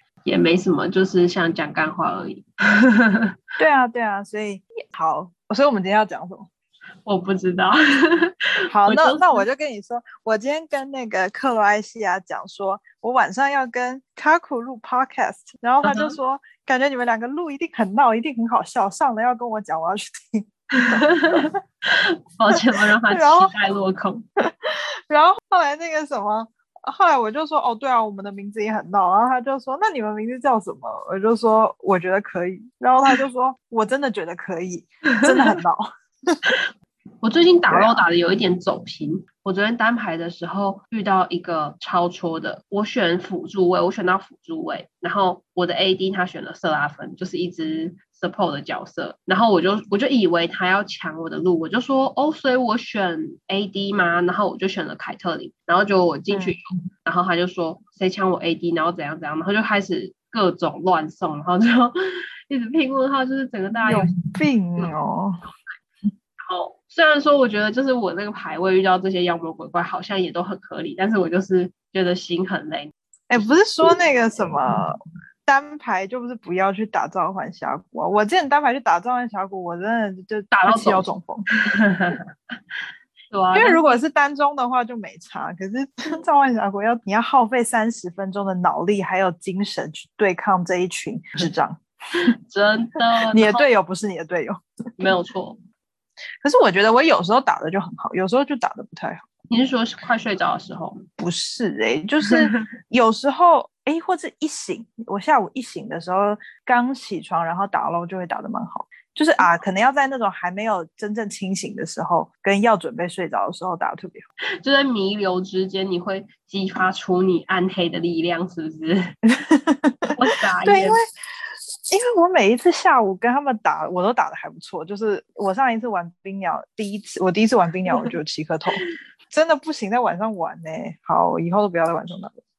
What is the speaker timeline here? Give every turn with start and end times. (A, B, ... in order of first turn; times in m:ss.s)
0:00.2-0:03.2 A
0:03.6-0:06.5 B
0:07.1-0:09.4 A
0:08.7-0:21.5 B
0:15.8-0:16.2 A
0:20.8-0:24.3 A
0:23.1-0:23.5 B
0:24.4-0:36.4 B
0:37.2-1:01.9 A
0:37.7-0:38.0 B
0:56.3-0:56.6 B
1:02.5-1:04.2 A
1:03.9-1:05.4 B
1:06.4-1:13.6 A
1:13.3-1:21.5 B
1:20.5-1:22.6 A
1:23.3-1:24.0 A
1:23.5-1:31.8 B
1:32.4-1:33.7 A
1:33.3-1:35.1 B
1:35.0-1:35.6 A
1:36.4-1:39.2 B
1:39.5-1:41.0 A
1:41.2-1:54.3 B
1:54.6-1:59.1 A
1:59.3-2:00.1 B
2:00.2-2:01.0 A
2:00.6-2:01.0 B
2:01.9-2:12.4 B